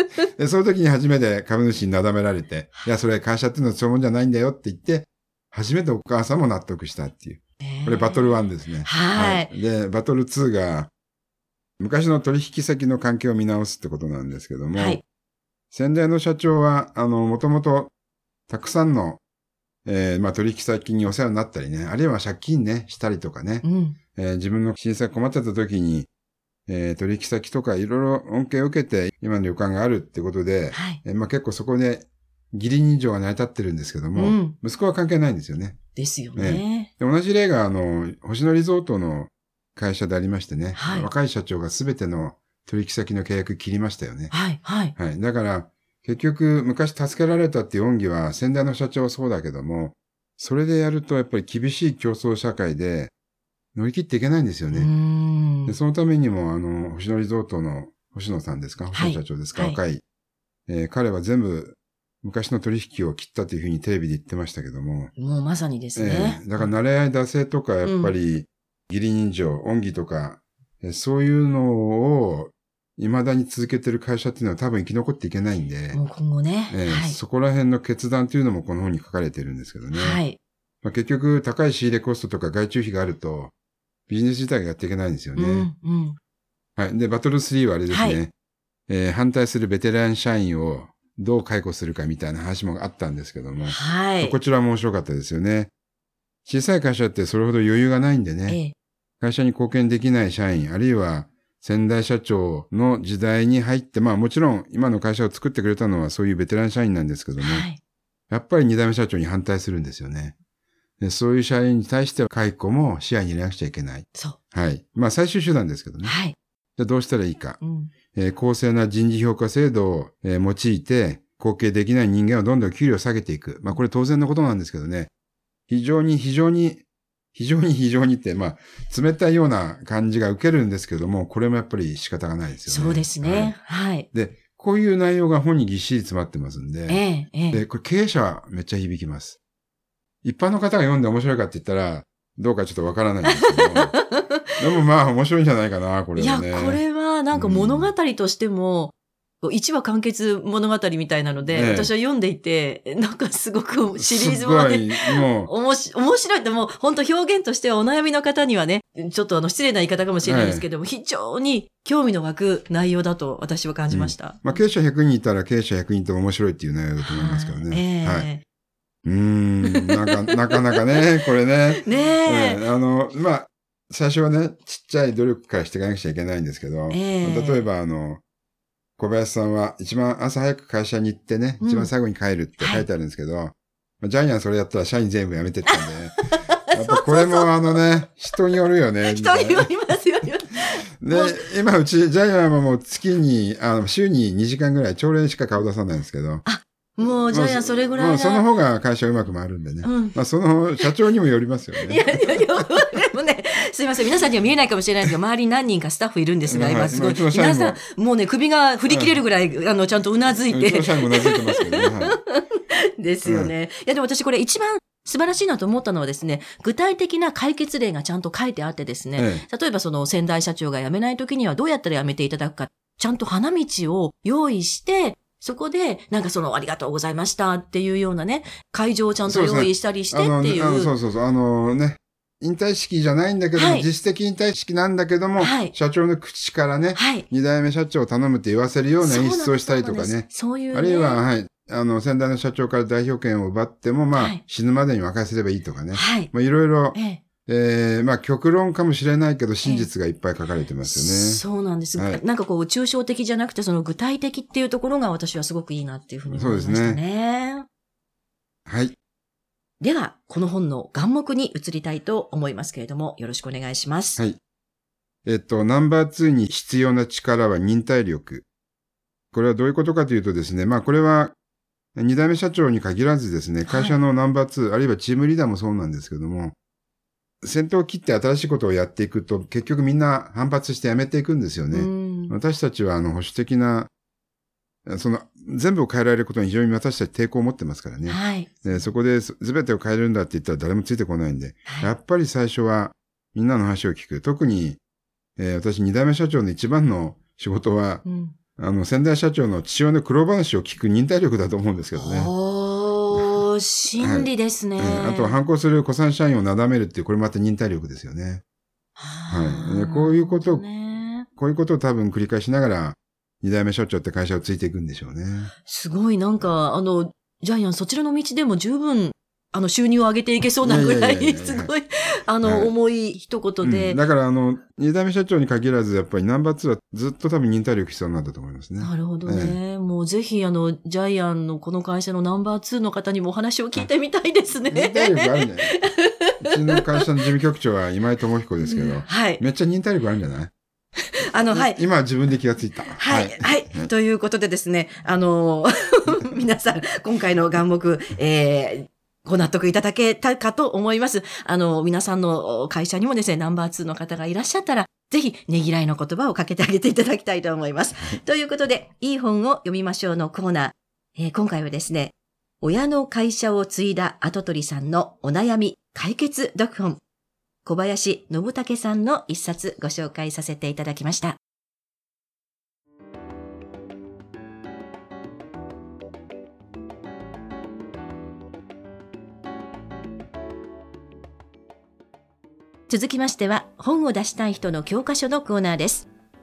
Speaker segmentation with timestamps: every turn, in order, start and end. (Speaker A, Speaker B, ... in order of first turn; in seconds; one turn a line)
Speaker A: 0.3-10.9
Speaker B: 7.6-9.5
Speaker A: 11.8-15.0
Speaker B: 14.7-15.0
Speaker A: 15.7-17.9
Speaker A: 18.5-19.2
Speaker A: 19.8-26.1
Speaker B: 23.6-24.0
Speaker A: 26.7-35.8
Speaker B: 30.7-31.0
Speaker B: 34.1-34.5
Speaker B: 35.9-36.9
Speaker A: 36.4-44.3
Speaker B: 40.8-41.1
Speaker B: 44.3-44.9
Speaker A: 45.0-53.1
Speaker A: 53.7-54.9
Speaker B: 54.7-55.8
Speaker A: 55.7-60.0
Speaker B: 58.9-59.8
Speaker A: 60.7-65.1
Speaker B: 65.2-66.7
Speaker A: 66.0-76.0
Speaker B: 67.8-68.1
Speaker B: 75.9-77.2
Speaker A: 76.7-80.2
Speaker B: 79.9-80.4
Speaker A: 80.8-83.5
Speaker A: 84.1-85.7
Speaker B: 85.3-86.2
Speaker A: 86.8-88.3
Speaker B: 87.9-88.2
Speaker A: 88.9-95.7
Speaker B: 93.6-94.3
Speaker A: 96.5-98.6
Speaker B: 98.5-98.7
Speaker A: 99.2-107.7
Speaker B: 107.4-107.8
Speaker A: 108.3-110.3
Speaker A: 111.0-116.2
Speaker B: 116.0-116.3
Speaker A: 116.8-117.6
Speaker B: 117.6-117.9
Speaker A: 118.1-125.1
Speaker A: 125.7-126.8
Speaker A: 127.3-133.5
Speaker B: 132.7-134.1
Speaker A: 134.1-139.4
Speaker B: 136.9-137.6
Speaker A: 140.2-144.0
Speaker B: 143.3-144.3
Speaker A: 144.6-147.9
Speaker B: 146.2-164.6
Speaker A: 151.5-151.9
Speaker A: 154.0-155.5
Speaker A: 160.2-160.6
Speaker A: 163.9-168.3
Speaker B: 167.0-168.4
Speaker A: 169.0-178.2
Speaker B: 169.6-170.5
Speaker B: 171.8-172.6
Speaker B: 176.9-177.6
Speaker A: 179.0-186.2
Speaker B: 181.6-181.9
Speaker B: 182.6-182.8
Speaker B: 185.7-187.7
Speaker A: 186.7-189.7
Speaker B: 189.0-191.4
Speaker A: 191.0-196.4
Speaker B: 196.4-198.5
Speaker A: 197.3-202.1
Speaker B: 199.8-200.2
Speaker B: 201.8-230.9
Speaker A: 206.4-207.8
Speaker A: 208.9-209.2
Speaker A: 210.5-212.2
Speaker A: 213.2-213.5
Speaker A: 219.2-219.4
Speaker A: 229.3-251.4
Speaker B: 233.5-233.9
Speaker B: 235.4-235.7
Speaker B: 236.9-237.2
Speaker B: 239.0-241.2
Speaker B: 244.1-244.4
Speaker B: 245.9-246.3
Speaker B: 246.9-247.2
Speaker B: 249.6-249.9
Speaker B: 250.8-257.6
Speaker A: 251.9-252.2
Speaker A: 256.3-257.0
Speaker A: 258.7-258.9
Speaker B: 259.8-264.2
Speaker A: 265.2-268.4
Speaker A: 269.3-271.3
Speaker A: 271.9-276.5
Speaker B: 273.7-273.9
Speaker A: 277.4-283.9
Speaker B: 281.7-282.4
Speaker A: 284.9-294.8
Speaker B: 288.1-288.6
Speaker B: 291.7-291.9
Speaker A: 295.4-298.0
Speaker B: 298.0-298.4
Speaker A: 298.6-302.3
Speaker B: 301.9-305.4
Speaker A: 304.0-308.4
Speaker B: 309.0-311.3
Speaker A: 309.3-310.6
Speaker A: 311.4-315.5
Speaker B: 315.6-324.0
Speaker A: 320.6-321.7
Speaker A: 322.4-322.7
Speaker A: 323.6-329.6
Speaker B: 328.8-337.0
Speaker A: 334.7-335.8
Speaker A: 336.4-340.5
Speaker B: 338.6-339.4
Speaker B: 341.3-341.8
Speaker A: 341.5-343.9
Speaker B: 342.9-367.0
Speaker B: 367.6-371.4
Speaker B: 382.9-386.1